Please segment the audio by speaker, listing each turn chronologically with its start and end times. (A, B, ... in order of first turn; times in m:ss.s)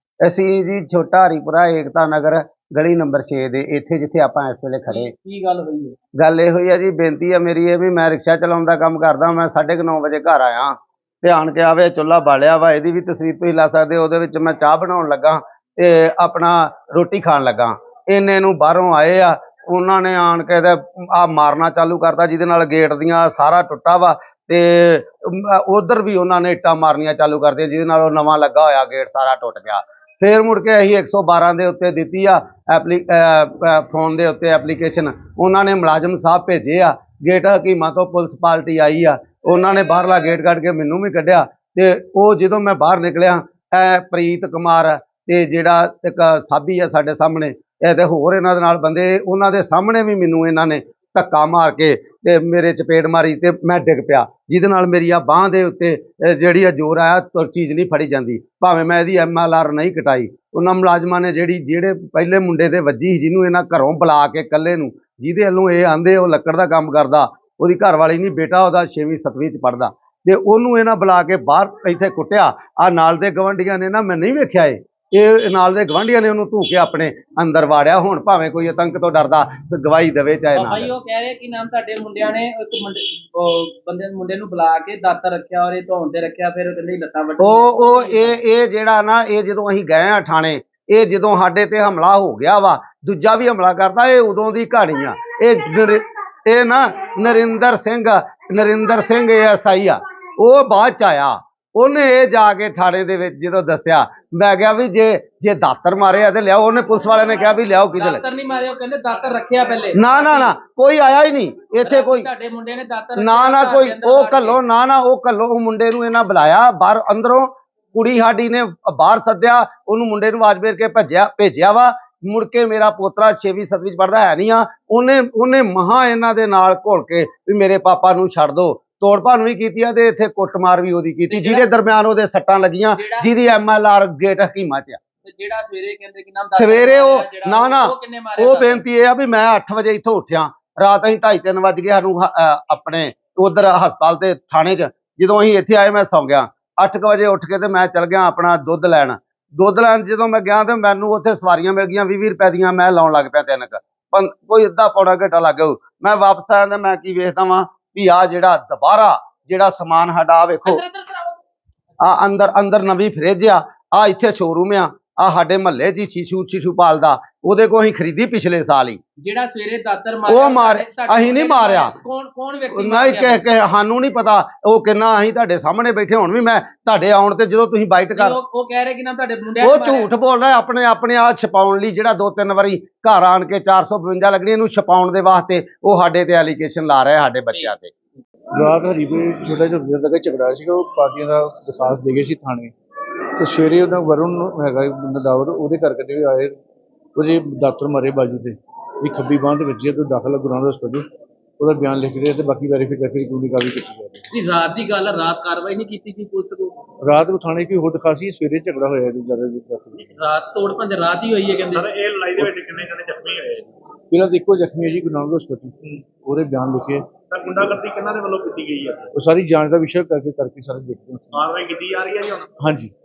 0:00.2-0:05.1 A
0:04.9-0:06.0 B
0:06.2-1:20.9 A
1:20.6-1:28.4 B
1:27.4-1:48.2 A
1:47.9-1:50.5 B
1:50.0-1:52.3 A
1:51.8-1:54.6 B
1:53.2-2:15.0 A
2:11.3-2:11.7 B
2:12.9-2:13.3 B
2:15.2-2:18.8 B
2:16.5-2:40.8 A
2:40.7-2:41.4 B
2:42.0-2:49.0 A
2:49.2-2:53.5 B
2:50.3-2:51.9 A
2:52.7-2:58.4 A
2:58.1-3:00.1 B
2:59.6-3:07.9 A
3:08.5-3:12.7 C
3:13.4-3:16.6 C
3:17.2-3:21.1 C
3:21.6-3:24.2 C
3:24.3-3:26.8 B
3:27.0-3:30.0 C
3:30.0-3:31.9 B
3:31.7-3:33.7 D
3:34.1-3:37.2 C
3:37.3-3:39.1 D
3:39.2-3:41.5 C
3:41.3-3:42.5 D
3:42.6-3:42.9 C